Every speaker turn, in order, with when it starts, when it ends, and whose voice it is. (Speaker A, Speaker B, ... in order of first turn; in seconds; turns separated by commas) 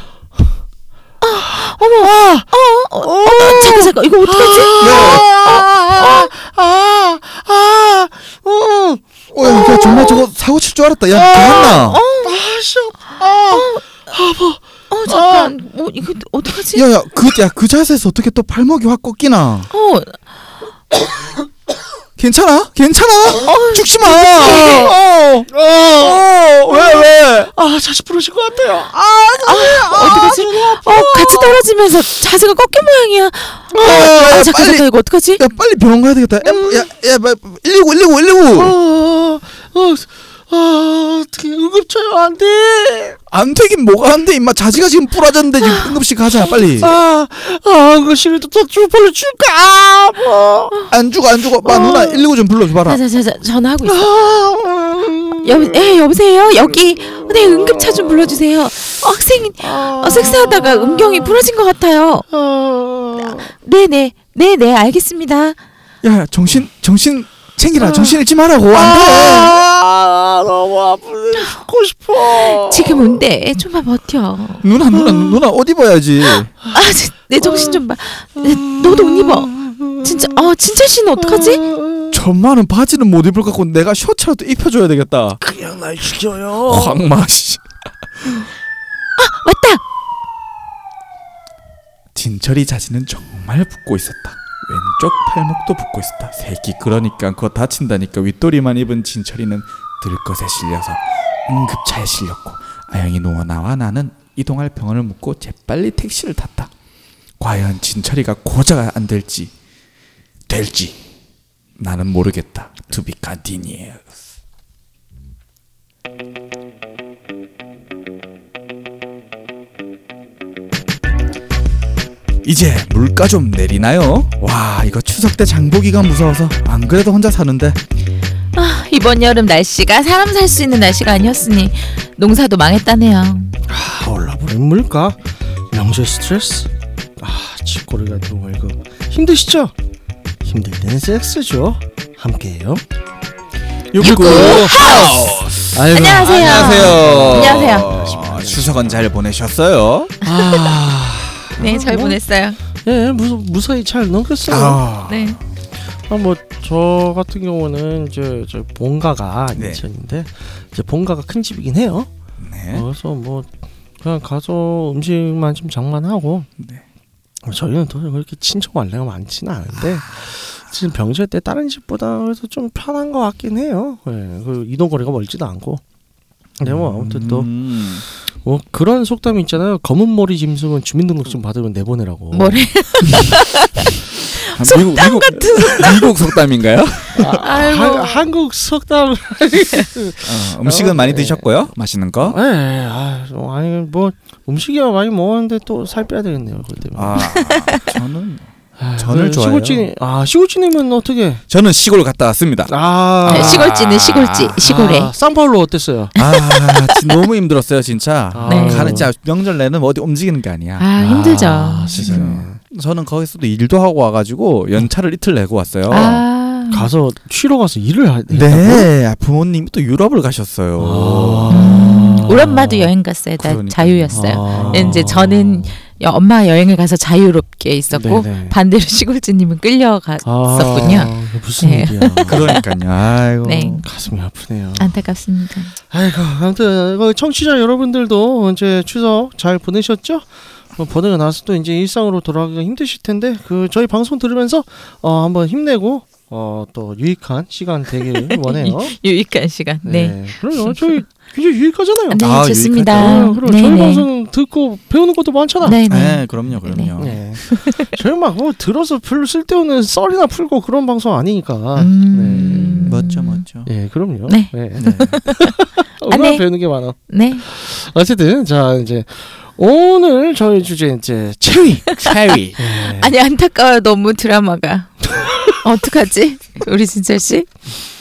Speaker A: 1.2-5.0, Speaker B: 1.4-10.2, Speaker C: 4.8-5.7, Speaker C: 9.3-12.0, Speaker B: 11.1-15.5, Speaker A: 11.7-12.4, Speaker A: 13.5-13.8, Speaker A: 14.9-16.9, Speaker C: 16.7-19.7, Speaker A: 19.7-20.2, Speaker C: 22.2-27.5, Speaker A: 23.4-24.9, Speaker B: 25.5-31.6, Speaker A: 29.4-35.4, Speaker C: 33.7-34.8, Speaker C: 35.4-38.7, Speaker B: 36.5-36.8, Speaker B: 38.5-43.2, Speaker C: 43.3-46.9, Speaker B: 46.4-50.7, Speaker C: 50.9-53.0, Speaker B: 51.6-52.2, Speaker A: 52.9-54.0, Speaker B: 53.8-55.9, Speaker A: 55.4-62.2, Speaker B: 57.1-58.3, Speaker B: 59.6-61.4, Speaker B: 62.3-63.5, Speaker A: 63.2-65.6, Speaker C: 66.0-69.6, Speaker B: 67.8-68.2, Speaker B: 68.7-73.2, Speaker A: 72.2-74.7, Speaker C: 74.6-76.5, Speaker B: 74.9-75.4, Speaker A: 76.7-81.6, Speaker B: 77.4-77.8, Speaker B: 78.4-80.5, Speaker B: 81.2-82.2, Speaker C: 82.1-85.4, Speaker B: 85.4-87.0, Speaker C: 86.6-87.7, Speaker A: 89.2-89.8, Speaker C: 92.1-106.7, Speaker C: 107.4-109.5, Speaker C: 110.5-111.0, Speaker C: 111.8-114.1, Speaker C: 122.4-127.8, Speaker A: 128.6-133.5, Speaker B: 133.7-135.2, Speaker B: 135.7-139.7, Speaker B: 140.4-142.8, Speaker C: 143.9-150.2, Speaker B: 144.0-145.1, Speaker A: 144.0-147.9, Speaker B: 145.7-149.0, Speaker B: 150.2-152.2, Speaker A: 150.3-150.8, Speaker A: 151.6-152.6, Speaker B: 152.8-154.8, Speaker C: 154.4-155.3, Speaker A: 155.1-155.4, Speaker B: 156.1-162.1, Speaker C: 159.5-159.8, Speaker C: 162.4-162.8, Speaker B: 162.7-163.5, Speaker B: 164.0-166.5, Speaker C: 166.6-166.8, Speaker B: 167.4-175.8, Speaker B: 176.6-177.5, Speaker C: 176.6-178.0, Speaker B: 178.4-182.7, Speaker A: 182.3-186.1, Speaker C: 184.4-187.4, Speaker B: 187.1-191.6, Speaker A: 187.4-188.2, Speaker C: 190.2-192.4, Speaker B: 192.2-197.2, Speaker C: 196.9-199.9, Speaker A: 197.2-197.9, Speaker B: 198.8-201.4, Speaker C: 201.5-204.6, Speaker B: 202.7-203.7, Speaker A: 203.3-205.1, Speaker B: 204.6-206.1, Speaker C: 206.1-210.9, Speaker A: 206.2-207.1, Speaker B: 208.3-209.1, Speaker A: 208.4-209.0, Speaker A: 210.8-212.3, Speaker B: 211.0-212.6, Speaker C: 211.9-216.2, Speaker A: 215.9-216.9, Speaker B: 216.7-218.9, Speaker C: 218.3-221.6, Speaker B: 220.8-222.9, Speaker A: 221.5-232.6, Speaker C: 223.4-225.1, Speaker B: 224.1-225.6, Speaker B: 227.9-228.6, Speaker B: 230.2-232.5, Speaker C: 232.2-233.8, Speaker A: 233.4-233.8, Speaker B: 233.8-234.9, Speaker A: 234.8-235.7, Speaker B: 235.9-240.2, Speaker B: 240.8-248.9, Speaker A: 248.3-251.0, Speaker B: 249.8-252.2, Speaker A: 252.1-254.1, Speaker C: 252.2-253.3, Speaker B: 252.9-255.8, Speaker A: 255.6-257.9, Speaker C: 255.9-257.2, Speaker B: 257.0-263.0, Speaker A: 261.8-263.4, Speaker C: 262.3-263.7, Speaker B: 263.6-272.0, Speaker A: 264.3-266.4, Speaker C: 264.8-265.2, Speaker A: 267.1-267.4, Speaker C: 271.9-272.6, Speaker B: 272.6-273.1, Speaker A: 272.8-277.5